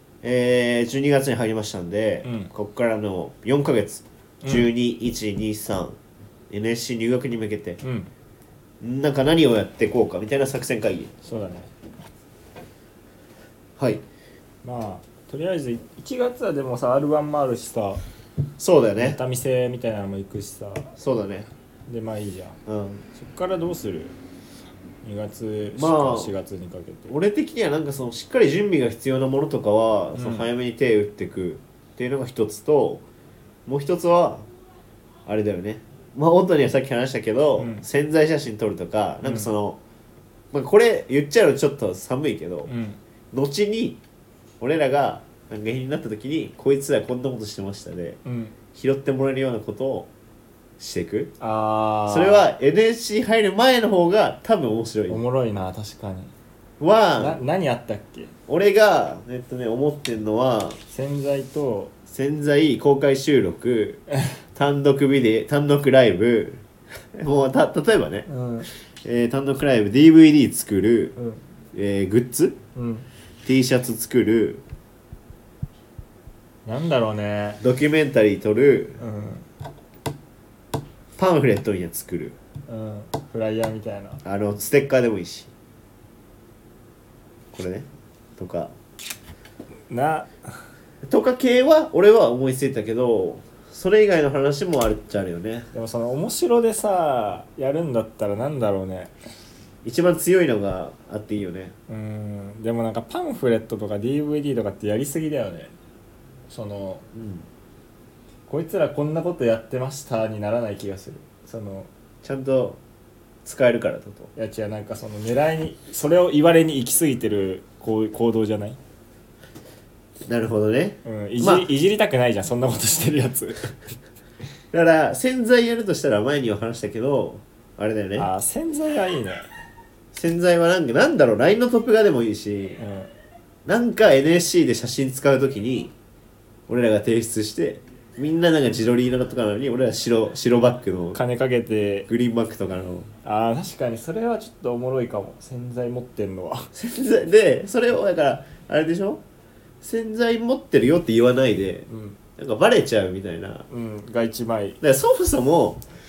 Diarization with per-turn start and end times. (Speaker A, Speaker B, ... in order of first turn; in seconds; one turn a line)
Speaker A: 0.2-6.0
Speaker B: 2.2-2.5
Speaker B: 4.4-4.7
Speaker A: 6.5-7.8
Speaker B: 7.8-8.1
Speaker A: 8.8-11.1
Speaker B: 11.2-11.7
Speaker A: 13.8-14.0
Speaker B: 14.6-18.0
Speaker A: 18.6-19.2
Speaker B: 19.0-20.9
Speaker A: 21.0-21.5
Speaker B: 21.9-22.6
Speaker A: 22.6-23.0
Speaker B: 23.1-24.1
Speaker B: 25.0-27.1
Speaker A: 25.7-26.3
Speaker A: 27.1-33.0
Speaker B: 30.1-30.5
Speaker A: 33.6-34.5
Speaker A: 35.2-39.8
Speaker B: 37.6-37.8
Speaker B: 39.2-39.5
Speaker A: 40.5-42.7
Speaker B: 42.6-43.0
Speaker A: 43.3-44.0
Speaker A: 44.6-48.2
Speaker B: 48.2-48.6
Speaker A: 48.7-50.1
Speaker A: 50.8-51.3
Speaker B: 51.4-52.5
Speaker A: 52.1-55.2
Speaker B: 55.1-56.3
Speaker A: 56.8-57.4
Speaker B: 57.2-58.3
Speaker A: 58.5-60.8
Speaker B: 60.9-61.9
Speaker A: 62.1-64.0
Speaker A: 64.5-68.3
Speaker B: 68.3-68.7
Speaker A: 68.9-71.1
Speaker B: 71.2-71.4
Speaker A: 71.7-72.6
Speaker B: 72.7-73.1
Speaker A: 73.4-74.6
Speaker B: 76.7-77.6
Speaker A: 77.6-79.0
Speaker B: 79.0-79.5
Speaker A: 81.2-82.3
Speaker B: 82.7-84.2
Speaker A: 84.2-85.5
Speaker A: 87.5-88.7
Speaker B: 89.9-90.7
Speaker A: 91.0-95.7
Speaker B: 95.7-99.1
Speaker A: 99.8-101.7
Speaker B: 101.9-105.7
Speaker B: 106.5-107.0
Speaker A: 107.1-107.5
Speaker B: 108.5-111.9
Speaker A: 112.2-112.8
Speaker A: 113.4-114.3
Speaker B: 114.3-118.8
Speaker A: 120.2-121.7
Speaker B: 121.0-123.8
Speaker A: 124.7-128.3
Speaker B: 128.2-129.5
Speaker A: 130.1-132.8
Speaker B: 132.8-133.1
Speaker A: 133.7-135.9
Speaker A: 136.7-141.2
Speaker B: 141.1-142.1
Speaker A: 142.1-143.1
Speaker B: 143.2-146.7
Speaker A: 146.7-149.2
Speaker A: 149.8-153.7
Speaker B: 151.9-152.2
Speaker B: 153.7-154.8
Speaker A: 154.8-155.8